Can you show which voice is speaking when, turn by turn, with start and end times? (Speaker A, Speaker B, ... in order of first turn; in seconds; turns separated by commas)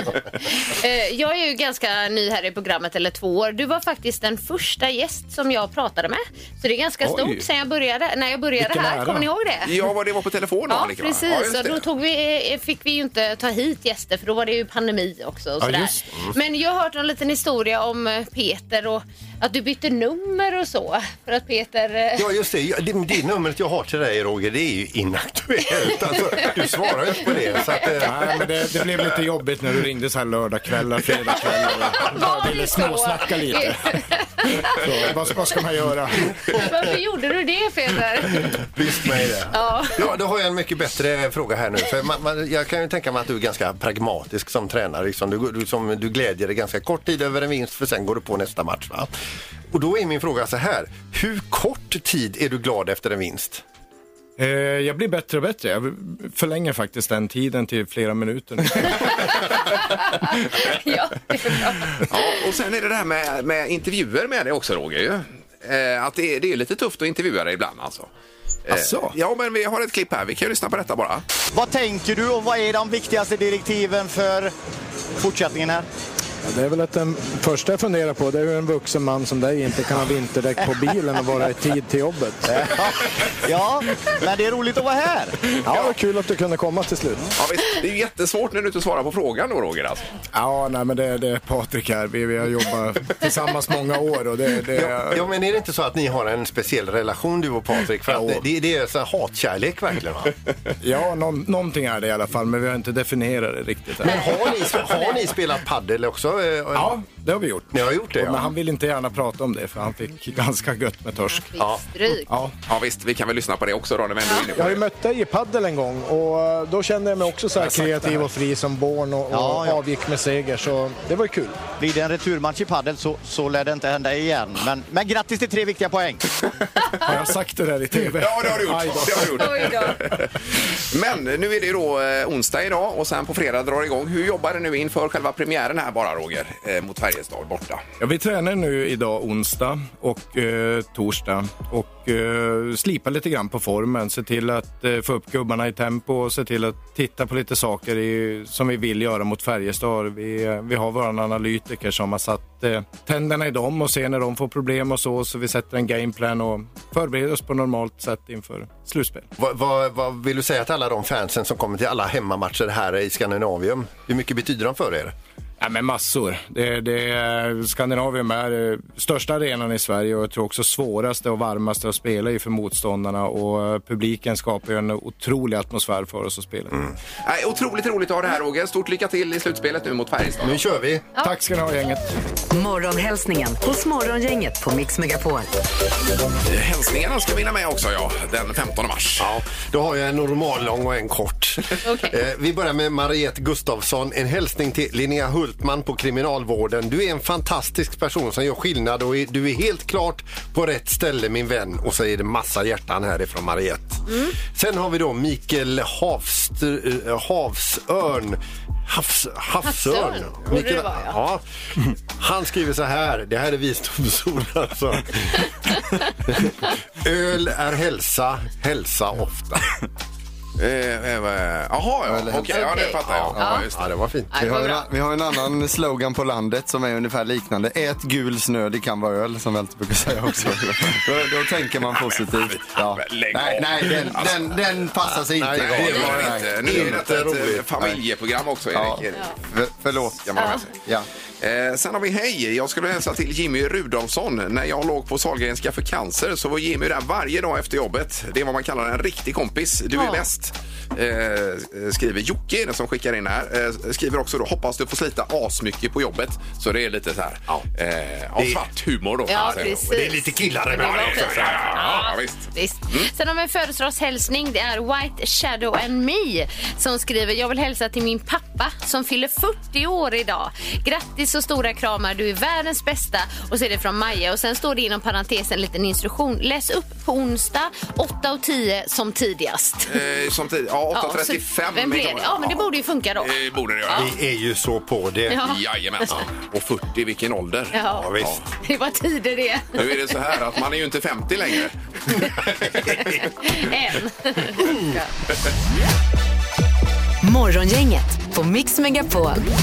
Speaker A: 0.5-9.8, Speaker B: 7.0-7.5, Speaker B: 8.6-9.3, Speaker C: 9.6-11.8, Speaker A: 10.7-22.3, Speaker B: 15.6-16.0, Speaker D: 22.1-28.4, Speaker A: 27.6-27.9, Speaker B: 28.0-33.9, Speaker A: 31.9-35.0, Speaker B: 34.7-36.6, Speaker A: 36.5-38.5, Speaker D: 38.5-49.1, Speaker A: 39.5-40.1, Speaker D: 49.7-53.6, Speaker B: 54.4-59.4, Speaker A: 59.0-62.5, Speaker C: 62.0-68.1, Speaker C: 68.7-71.2, Speaker B: 68.7-69.0, Speaker E: 71.5-74.5, Speaker E: 75.2-75.8, Speaker B: 76.4-82.9, Speaker E: 82.5-85.4, Speaker B: 85.5-87.3, Speaker C: 85.7-85.9, Speaker C: 87.4-90.0, Speaker B: 90.3-95.2, Speaker D: 94.7-100.3, Speaker B: 98.1-98.4, Speaker B: 100.8-104.2, Speaker D: 104.0-107.0, Speaker A: 104.1-105.2, Speaker B: 106.7-111.5, Speaker D: 107.7-108.5, Speaker A: 111.3-112.3, Speaker B: 112.1-112.5, Speaker C: 112.7-114.8, Speaker B: 114.6-121.6, Speaker E: 117.6-118.2, Speaker E: 119.3-119.8, Speaker E: 121.8-126.2, Speaker B: 126.9-129.9, Speaker C: 128.2-130.3, Speaker A: 129.2-130.0, Speaker C: 130.9-137.8, Speaker B: 138.0-159.3, Speaker D: 159.4-165.1, Speaker B: 165.6-176.8, Speaker C: 177.2-180.6, Speaker D: 180.4-181.1, Speaker B: 181.2-182.1, Speaker F: 182.5-185.5, Speaker C: 186.4-189.3, Speaker D: 189.2-219.8, Speaker A: 191.8-192.1, Speaker A: 204.1-204.3, Speaker A: 209.6-211.2, Speaker C: 220.6-223.8, Speaker G: 222.1-222.7, Speaker A: 222.5-223.7, Speaker D: 223.1-224.3, Speaker A: 224.3-224.9, Speaker G: 224.4-237.0, Speaker C: 231.9-234.6, Speaker D: 235.1-237.6, Speaker C: 235.6-239.2, Speaker G: 238.7-241.1, Speaker C: 240.2-240.7, Speaker A: 240.4-240.6, Speaker C: 241.4-259.8, Speaker A: 249.9-250.3, Speaker A: 259.3-279.9, Speaker D: 259.5-262.1, Speaker C: 260.8-263.1, Speaker C: 279.9-284.1, Speaker A: 280.9-283.4, Speaker A: 283.9-284.1, Speaker D: 283.9-285.4, Speaker A: 285.3-286.2, Speaker C: 285.4-288.4, Speaker A: 287.7-290.0, Speaker D: 287.9-288.4, Speaker C: 289.7-292.8, Speaker D: 292.8-293.1, Speaker A: 292.9-295.1, Speaker D: 294.6-294.9, Speaker F: 297.2-299.4